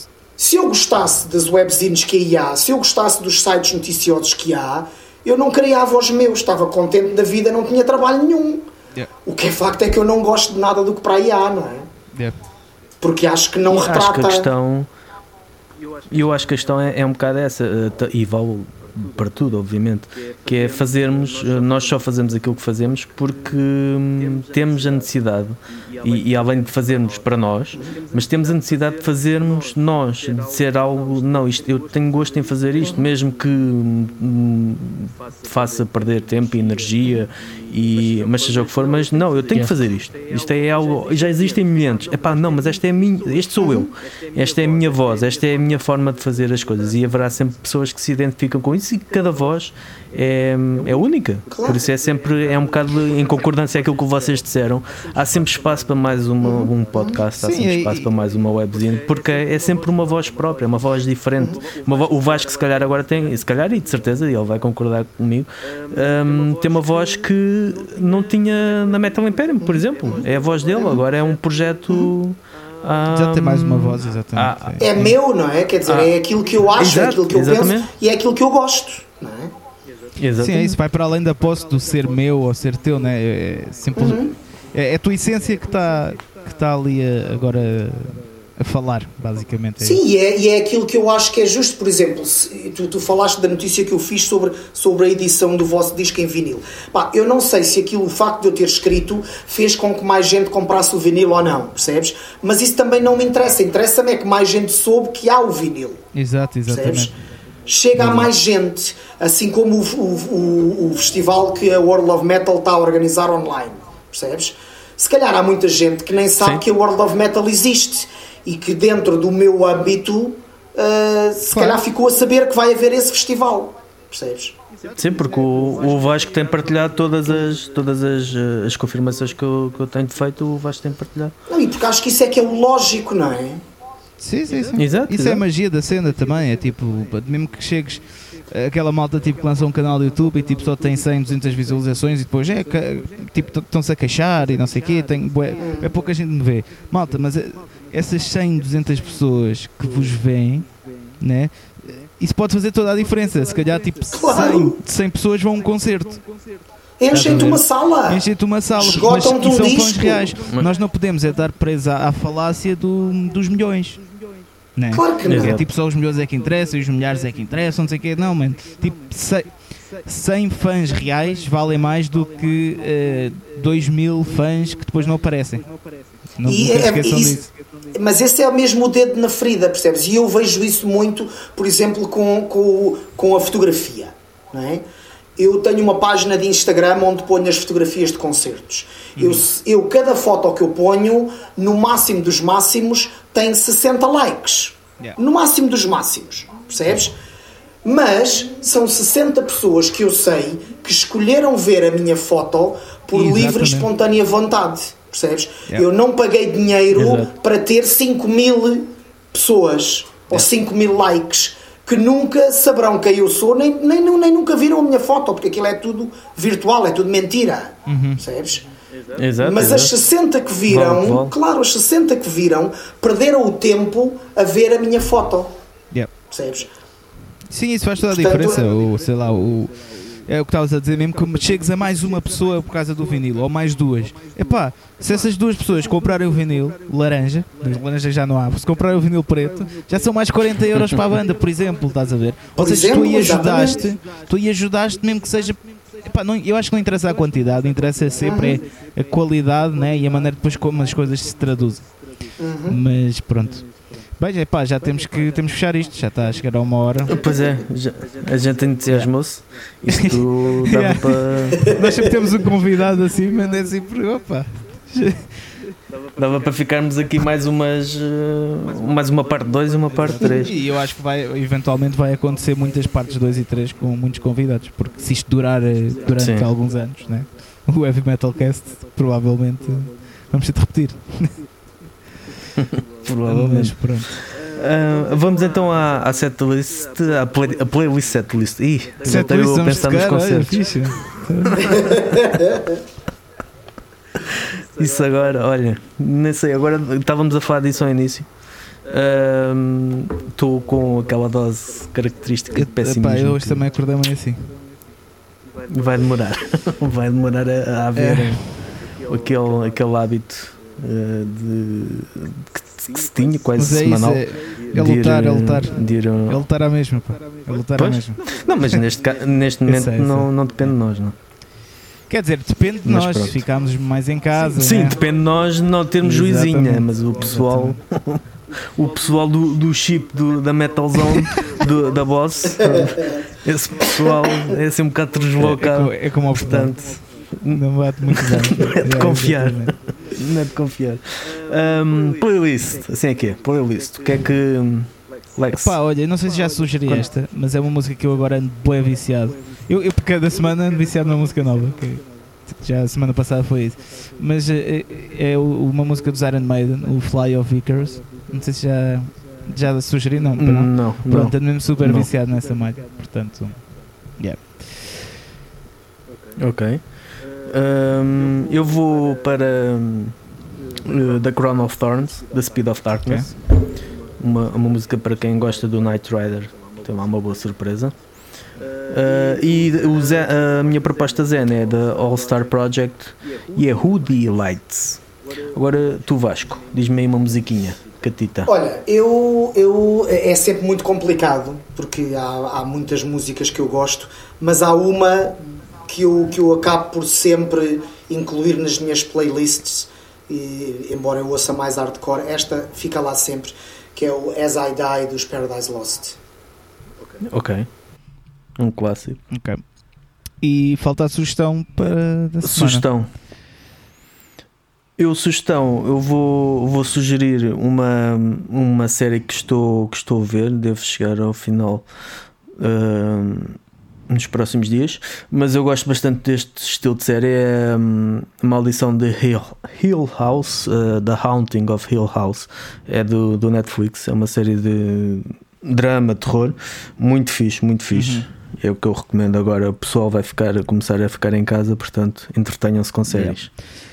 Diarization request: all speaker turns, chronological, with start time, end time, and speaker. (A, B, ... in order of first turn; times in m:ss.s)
0:00.4-0:08.6 A
0:09.2-0:11.9 A
0:13.0-0:14.5 A
0:13.7-0:14.9 B
0:16.1-1:15.1 B
0:43.6-0:43.9 A
0:51.5-0:51.8 A
0:56.4-0:57.2 A
0:57.4-0:58.1 C
1:09.6-1:11.0 A
1:11.9-1:12.1 A
1:13.1-1:15.1 C
1:14.8-1:19.5 A
1:15.8-1:16.1 B
1:16.7-1:17.9 B
1:20.2-1:20.8 B
1:20.4-1:30.0 C
1:24.0-1:24.3 A
1:29.8-1:46.0 A
1:46.1-1:47.1 C
1:46.7-1:47.1 A
1:47.6-2:04.5 A
1:47.9-1:48.3 C
2:01.5-2:01.8 C
2:04.9-2:11.3 B
2:11.5-2:13.6 A
2:14.2-2:30.7 C
2:14.7-2:15.4 B
2:25.6-2:25.9 A
2:31.2-2:36.2 C
2:34.1-2:34.8 A
2:37.0-2:38.2 A
2:37.1-2:44.0 C
2:38.8-2:40.3 A
2:44.7-2:49.5 C
2:44.9-2:45.6 A
2:45.3-2:45.6 B
2:50.0-2:55.7 C
2:56.4-2:57.5 C
2:56.4-3:04.8 A
3:05.4-3:17.1 A
3:09.2-3:09.4 C
3:17.8-3:38.6 A
3:23.1-3:23.9 C
3:26.9-3:27.3 B
3:37.8-3:38.2 C
3:39.1-3:39.9 B
3:39.4-3:45.5 A
3:40.7-3:41.3 B
3:46.3-3:46.7 A
3:47.5-4:11.8 C
3:48.1-3:48.7 A
4:02.6-4:03.8 A
4:08.2-4:08.6 A
4:12.4-4:12.8 A
4:12.7-4:13.7 C
4:14.2-4:17.2 C
4:17.1-4:21.7 B
4:19.9-4:25.4 C
4:26.1-4:30.6 B
4:30.1-4:41.3 C
4:36.1-4:36.5 B
4:42.6-4:50.7 B
4:43.2-4:44.1 C
4:49.0-4:51.8 C
4:51.3-4:52.2 B
4:54.3-4:58.3 B
4:58.9-5:03.6 B
5:02.5-5:04.5 C
5:05.7-5:16.4 B
5:08.0-5:08.4 C
5:13.6-5:18.8 C
5:17.7-5:21.2 B
5:19.6-5:20.3 C
5:22.1-5:25.0 C
5:22.8-5:23.4 B
5:24.5-5:45.8 B
5:26.0-5:27.8 C
5:35.4-5:36.8 C
5:37.5-5:39.7 C
5:45.5-6:05.0 C
6:00.4-6:02.1 B
6:06.4-6:06.9 B
6:07.4-6:10.2 B
6:10.8-6:13.4 B
6:14.2-6:17.9 B
6:18.9-6:28.5 B
6:28.4-6:46.2 A
6:47.2-6:47.7 B
6:48.6-6:49.2 B
6:49.3-6:49.6 C
6:50.4-6:52.8 C
6:52.4-6:53.1 B
6:55.0-7:01.8 B
7:02.6-7:23.5 B
7:17.9-7:18.3 C
7:23.1-7:23.5 C